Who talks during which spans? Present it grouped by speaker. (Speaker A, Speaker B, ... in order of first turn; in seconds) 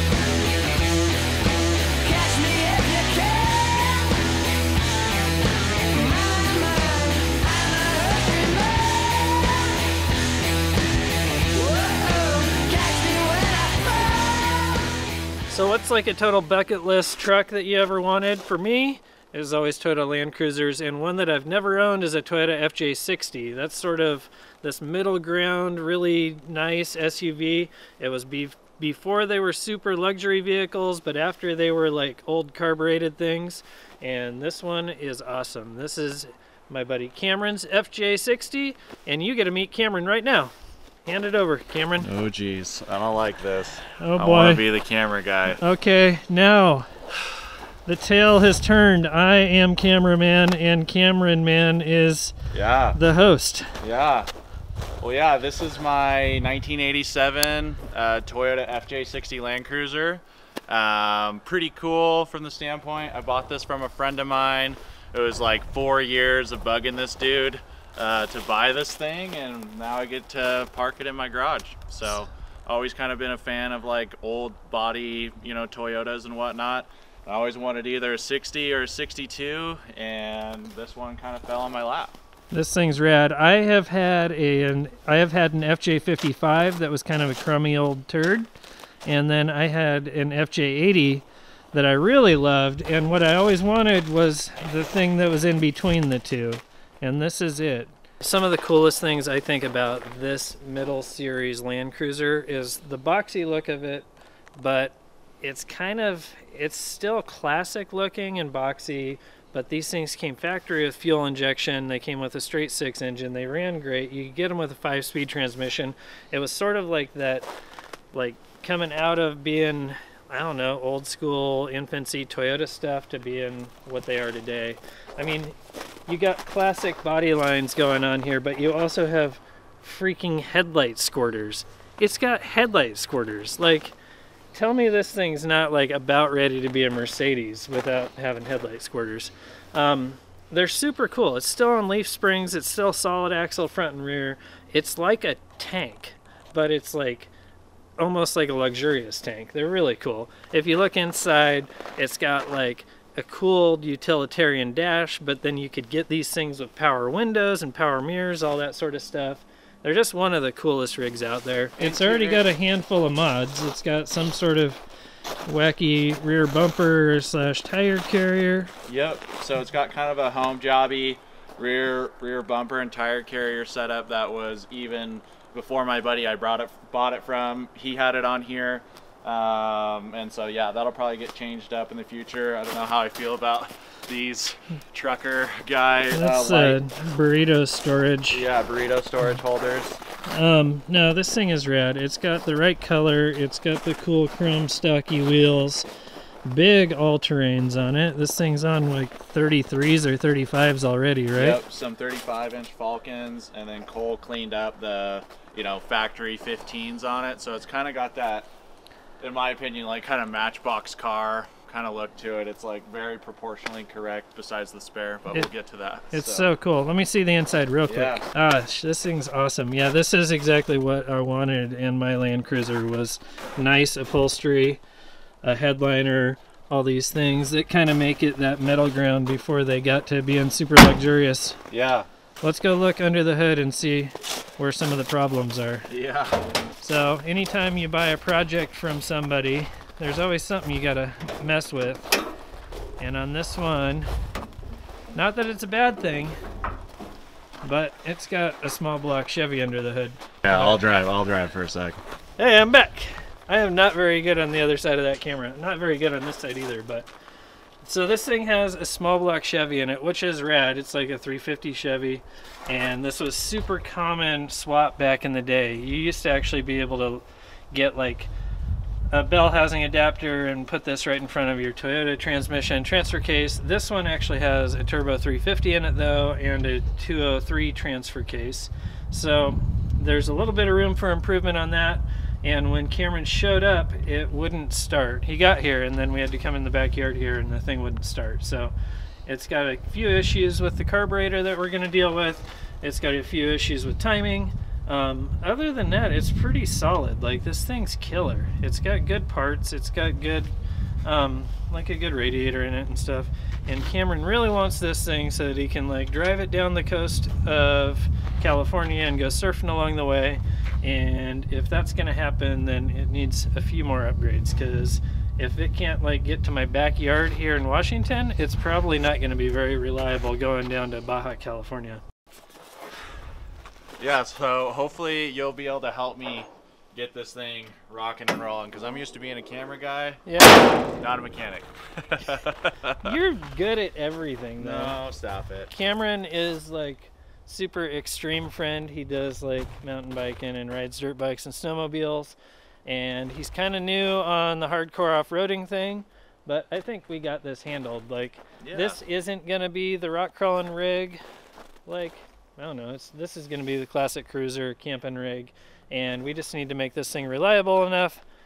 Speaker A: 2.0-4.0, 6.0-9.6, 11.6-14.8
Speaker B: 15.5-40.5, 41.0-42.1, 44.0-44.6, 45.5-46.9, 47.9-52.4, 52.9-53.8, 82.5-88.5, 89.1-117.5, 118.1-125.5, 126.1-133.9, 134.5-147.3, 148.0-164.8, 165.5-168.7, 186.1-188.4, 190.3-195.9, 196.4-201.6, 216.1-224.8, 225.4-231.6, 232.4-235.9, 236.8-242.1, 243.0-244.1, 245.1-246.4, 247.6-250.8, 252.4-257.1, 257.8-268.3, 269.1-288.7, 289.3-300.5, 301.0-322.0, 330.2-330.8, 333.0-335.0, 335.7-351.2, 351.9-358.2
Speaker C: 42.0-45.6, 52.5-53.0, 53.8-54.3, 55.0-82.2, 161.8-162.4, 168.9-186.8, 188.3-190.0, 201.4-208.5, 209.2-216.5, 217.9-218.2, 231.7-232.1, 235.9-236.4, 250.4-252.0, 324.0-330.2, 331.0-333.2, 334.6-335.7, 348.6-349.0